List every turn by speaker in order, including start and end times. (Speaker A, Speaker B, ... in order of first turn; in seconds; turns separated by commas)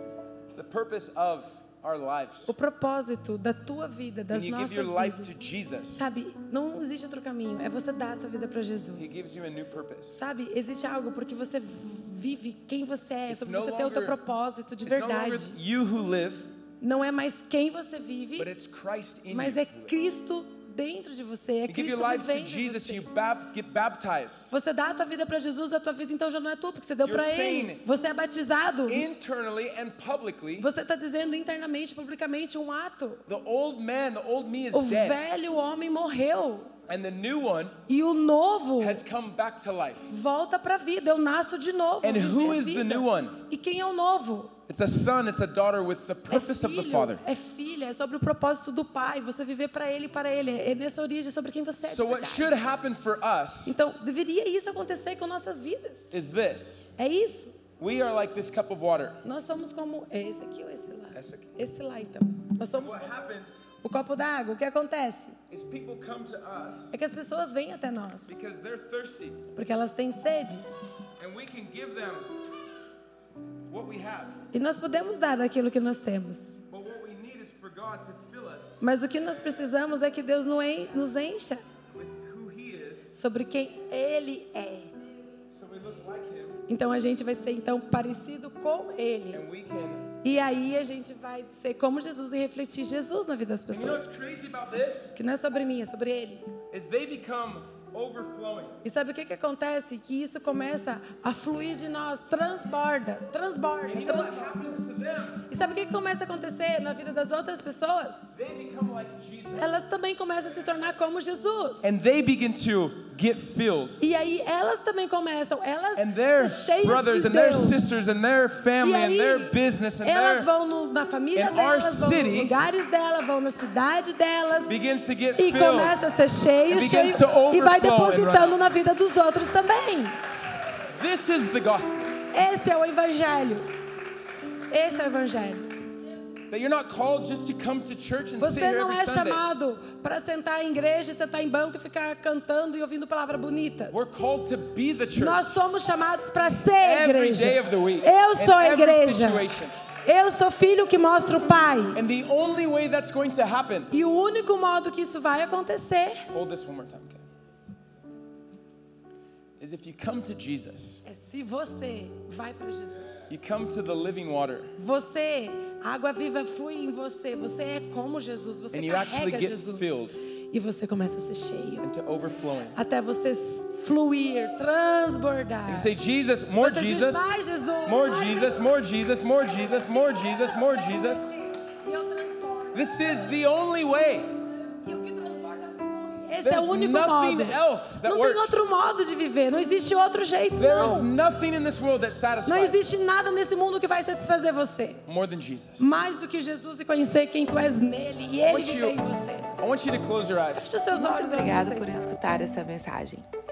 Speaker A: 0.5-2.5, Speaker B: 2.5-5.4, Speaker A: 4.3-6.0, Speaker B: 5.9-9.1, Speaker A: 8.9-10.2, Speaker B: 10.1-15.6, Speaker A: 13.3-14.2, Speaker A: 14.8-16.5, Speaker B: 16.8-18.5, Speaker A: 18.4-19.9, Speaker B: 19.3-23.1, Speaker A: 21.7-24.5, Speaker B: 24.5-29.1, Speaker A: 27.0-27.9, Speaker A: 28.9-30.7, Speaker B: 30.6-33.2, Speaker A: 33.3-35.2, Speaker B: 34.7-36.7, Speaker A: 36.9-37.8, Speaker B: 37.9-39.0, Speaker A: 38.8-40.1, Speaker B: 40.1-44.6, Speaker A: 42.0-43.4, Speaker A: 44.7-47.2, Speaker B: 46.3-52.7, Speaker A: 51.9-53.8, Speaker B: 53.6-56.1, Speaker A: 56.1-56.9, Speaker B: 57.0-57.6, Speaker A: 57.8-59.2, Speaker B: 59.2-63.1, Speaker A: 61.1-61.6, Speaker A: 62.7-63.6, Speaker B: 63.8-65.4, Speaker A: 65.5-66.9, Speaker B: 66.9-68.4, Speaker A: 68.3-69.5, Speaker B: 69.5-70.7, Speaker A: 71.2-72.3, Speaker A: 73.7-74.4, Speaker B: 74.5-76.6, Speaker A: 76.7-78.8, Speaker B: 78.8-81.6, Speaker A: 82.0-83.1, Speaker B: 83.2-84.9, Speaker A: 85.5-86.6, Speaker B: 86.7-89.4, Speaker A: 89.3-90.1, Speaker B: 90.2-94.1, Speaker A: 93.7-95.1, Speaker B: 95.2-96.6, Speaker A: 96.7-98.8, Speaker B: 98.8-104.6, Speaker A: 103.8-105.5, Speaker B: 105.5-108.3, Speaker A: 108.3-109.7, Speaker B: 109.6-112.0, Speaker A: 111.8-114.0, Speaker B: 114.0-117.8, Speaker A: 116.0-120.5, Speaker B: 118.8-124.8, Speaker A: 121.3-122.6, Speaker A: 124.7-126.0, Speaker B: 125.3-130.2, Speaker A: 126.7-128.6, Speaker A: 130.9-132.2, Speaker B: 132.3-133.7, Speaker B: 134.7-135.7, Speaker A: 136.5-139.4, Speaker B: 138.4-144.1, Speaker A: 143.9-145.6, Speaker B: 145.1-149.5, Speaker A: 146.8-149.8, Speaker B: 150.0-152.0, Speaker A: 151.9-153.9, Speaker B: 153.9-156.3, Speaker A: 156.3-157.2, Speaker A: 159.6-161.0, Speaker B: 161.1-163.4, Speaker A: 163.3-164.7, Speaker B: 164.8-171.9, Speaker A: 168.7-170.2, Speaker A: 171.8-172.8, Speaker B: 172.7-175.9, Speaker A: 175.7-181.3, Speaker B: 176.6-178.7, Speaker B: 179.6-183.2, Speaker A: 182.7-184.3, Speaker B: 184.8-191.1, Speaker A: 186.4-188.6, Speaker A: 190.6-192.9, Speaker B: 192.4-195.0, Speaker A: 195.1-195.9, Speaker B: 195.8-199.5, Speaker A: 198.4-199.0, Speaker A: 199.6-200.8, Speaker B: 200.5-202.1, Speaker C: 200.9-203.3